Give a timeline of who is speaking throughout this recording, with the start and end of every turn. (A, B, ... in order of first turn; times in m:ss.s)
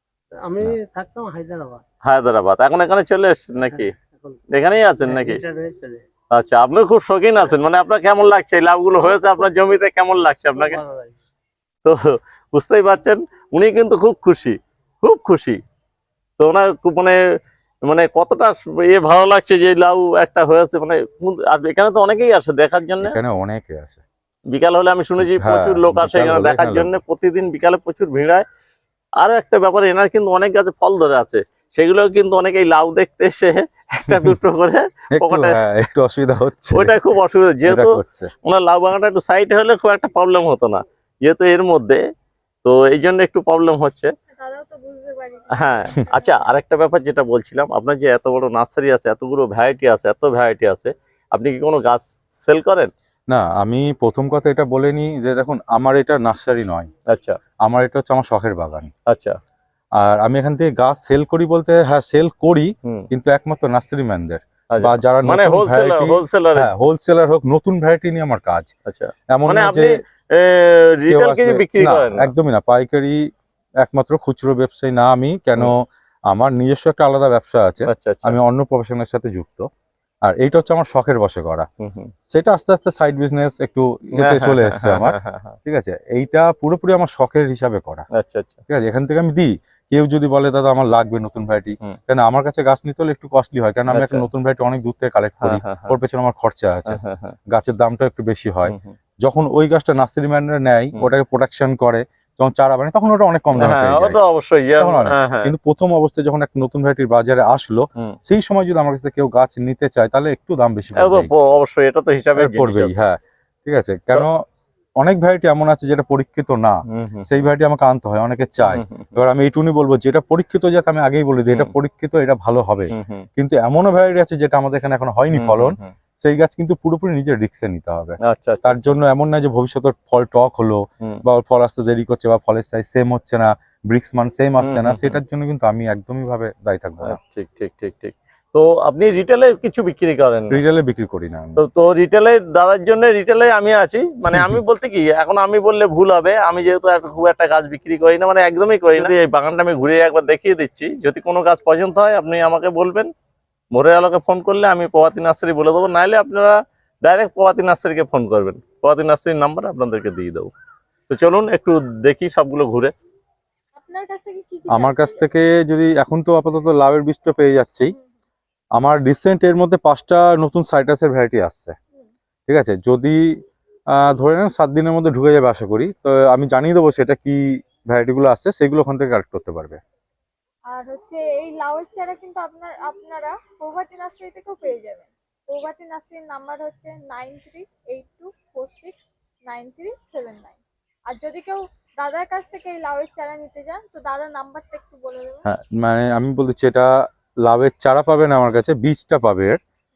0:00.3-0:01.8 A
0:02.0-0:03.9 B
0:03.7-0:04.4 A
0:04.5-0:05.4 B
0:05.0-0:06.0 A
0:06.3-0:10.8 B
0:10.6-0:11.2 A
0:11.8-0:15.6 B
0:16.4-0:17.2 B
0:17.8-0:23.2 B
0:23.0-0:24.0 C
0:24.5-0:28.4 B
0:25.2-0:27.0 C
0:29.2-0:35.6 B
0:34.1-0:34.4 C
0:35.2-0:37.0 C
0:36.8-0:42.0 B
0:37.7-0:38.3 C
0:42.6-0:44.1 B
0:44.4-0:46.4 D
0:45.6-0:52.9 B
0:53.3-0:56.9 C
0:57.1-0:57.4 B
0:57.6-0:58.9 C
0:59.1-0:59.4 B
1:00.0-1:08.7 C
1:04.7-1:06.7 B
1:08.9-1:12.3 B
1:09.3-1:10.0 C
1:11.1-1:13.2 C
1:13.8-1:19.7 C
1:17.9-1:18.4 B
1:20.3-1:21.7 C
1:21.8-1:22.1 B
1:22.3-1:28.1 C
1:24.2-1:25.5 B
1:28.2-1:28.6 B
1:28.7-1:44.2 C
1:33.9-1:34.2 B
1:35.4-1:35.9 B
1:36.9-1:37.4 B
1:38.7-1:39.0 B
1:43.6-1:45.5 B
1:44.8-1:51.3 C
1:51.0-1:53.0 B
1:52.4-1:54.4 C
1:55.0-2:17.2 C
1:56.9-1:57.3 B
1:58.7-1:59.1 B
2:02.9-2:03.3 B
2:05.4-2:05.9 B
2:08.3-2:09.0 B
2:14.6-2:15.2 B
2:17.0-2:20.6 B
2:20.5-2:21.6 C
2:21.6-2:33.1 B
2:24.3-2:24.6 C
2:33.8-2:40.5 B
2:41.1-2:42.9 B
2:43.8-2:45.2 D
2:44.7-2:47.9 C
2:48.8-2:51.8 C
2:52.5-2:53.2 C
2:54.0-2:59.8 C
3:00.7-3:10.6 D
3:11.1-3:15.4 D
3:15.5-3:16.9 C
3:17.5-3:19.6 C